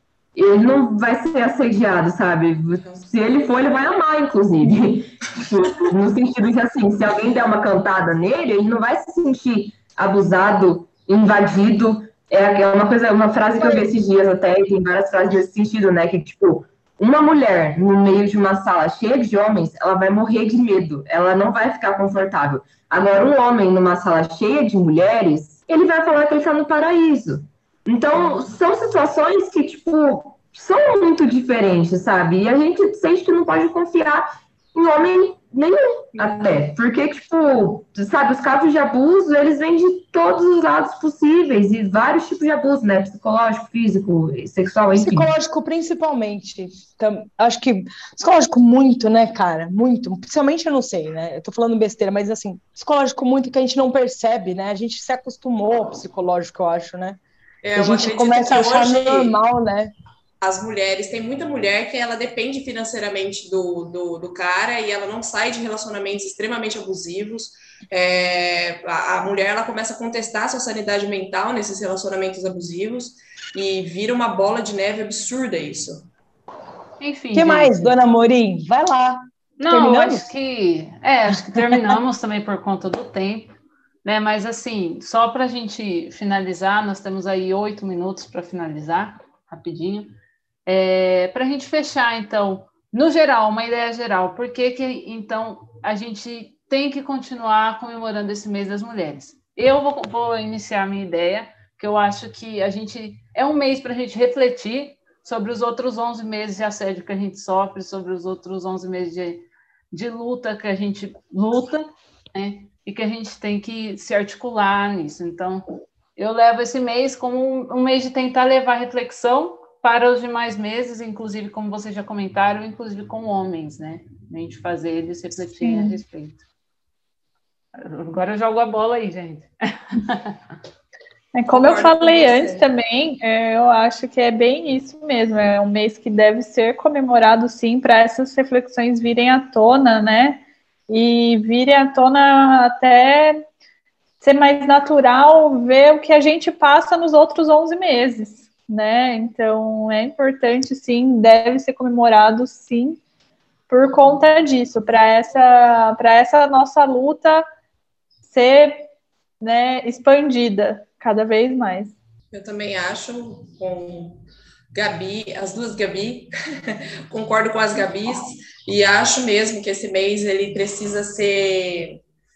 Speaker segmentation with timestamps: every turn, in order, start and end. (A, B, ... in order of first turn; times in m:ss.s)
0:00.4-0:45.3 A
0:02.8-0:03.1 B
0:13.6-0:13.8 C
0:45.0-0:57.2 C
0:57.6-0:59.4 B
0:57.8-0:59.9 C
1:00.4-1:16.0 B
1:17.0-1:18.0 D
1:17.3-1:20.3 C
1:19.6-1:55.6 D
1:56.2-2:06.4 D
2:05.6-2:06.0 E
2:07.8-2:10.4 D
2:11.3-2:23.5 E
2:11.5-2:12.7 B
2:24.2-2:33.0 E
2:33.7-2:37.5 E
2:38.3-2:38.9 E
2:39.4-2:42.0 E
2:42.3-2:44.2 B
2:44.7-2:52.0 B